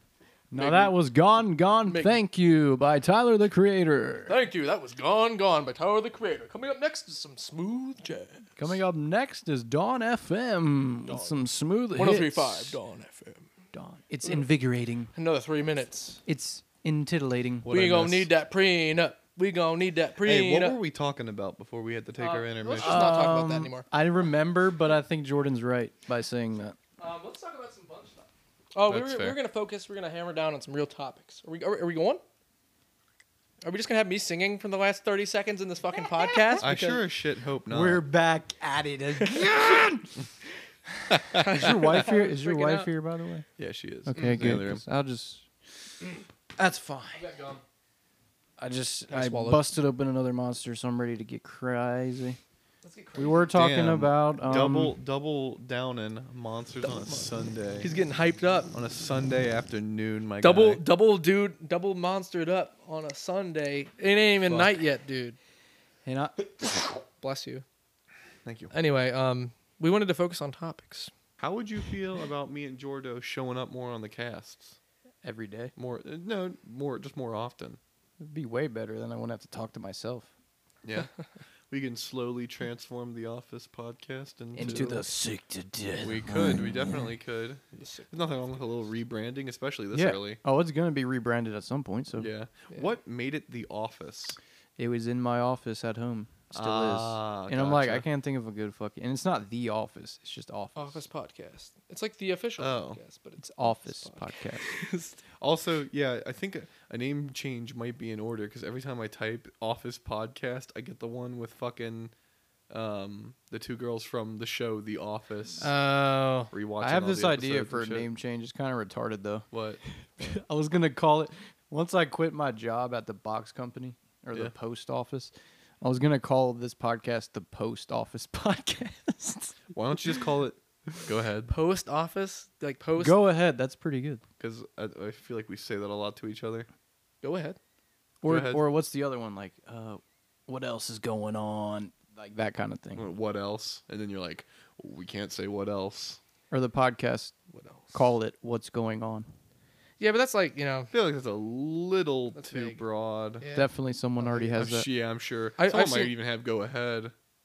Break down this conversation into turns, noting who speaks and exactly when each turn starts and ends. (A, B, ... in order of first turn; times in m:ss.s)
0:00.5-0:04.3 A
0:00.5-0:00.9 B
0:01.8-0:02.2 B
0:04.3-0:08.6 B
0:08.6-0:12.8 A
0:11.1-0:11.3 B
0:11.9-0:13.5 B
0:13.7-0:15.1 A
0:15.1-0:16.2 B
0:16.3-0:17.8 A
0:17.6-0:18.3 C
0:17.7-0:20.8 B
0:20.2-0:23.2 C
0:22.2-0:23.9 B
0:22.8-0:26.8 A
0:27.0-0:32.2 B
0:28.9-0:29.4 C
0:33.6-0:37.0 B
0:36.6-0:38.0 C
0:37.7-0:40.2 A
0:39.3-0:39.8 B
0:41.1-0:42.0 C
0:41.3-0:42.9 B
0:41.4-0:43.5 A
0:43.6-0:44.8 C
0:44.0-0:45.5 A
0:44.2-0:44.6 B
0:46.6-0:47.3 A
0:47.2-0:47.6 B
0:48.6-0:52.4 A
0:49.1-0:49.7 B
0:52.8-0:53.6 B
0:53.1-0:55.0 A
0:53.5-0:57.9 C
0:56.8-0:58.7 B
0:58.7-1:00.8 C
1:00.4-1:05.4 B
1:04.4-1:04.8 C
1:06.0-1:06.5 A
1:06.8-1:07.6 B
1:08.4-1:08.7 C
1:08.7-1:11.1 B
1:11.4-1:14.8 C
1:15.2-1:15.7 A
1:15.8-1:17.8 C
1:18.2-1:20.3 A
1:20.8-1:21.1 C
1:21.7-1:25.0 C
1:24.6-1:27.0 A
1:26.0-1:30.4 C
1:27.8-1:28.1 B
1:29.9-1:32.3 A
1:32.1-1:34.4 C
1:34.8-1:41.1 A
1:36.5-1:38.1 C
1:40.8-1:45.2 B
1:42.6-1:43.0 C
1:43.4-1:44.6 A
1:45.4-1:52.1 C
1:52.7-1:55.7 C
1:55.6-1:56.5 B
1:56.5-1:58.1 C
1:56.8-2:10.2 A
1:59.5-2:00.4 C
2:09.7-2:11.5 C
2:11.5-2:13.2 B
2:13.0-2:14.2 A
2:14.4-2:16.7 C
2:17.2-2:17.6 B
2:18.2-2:18.6 C
2:18.2-2:23.1 A
2:22.9-2:26.2 C
2:26.5-2:27.3 A
2:27.5-2:28.1 B
2:27.9-2:29.3 A
2:30.0-2:30.9 B
2:30.9-2:33.5 C
2:32.3-2:32.8 B
2:33.4-2:34.6 B
2:33.5-2:34.9 A
2:34.6-2:37.1 C
2:35.6-2:36.2 B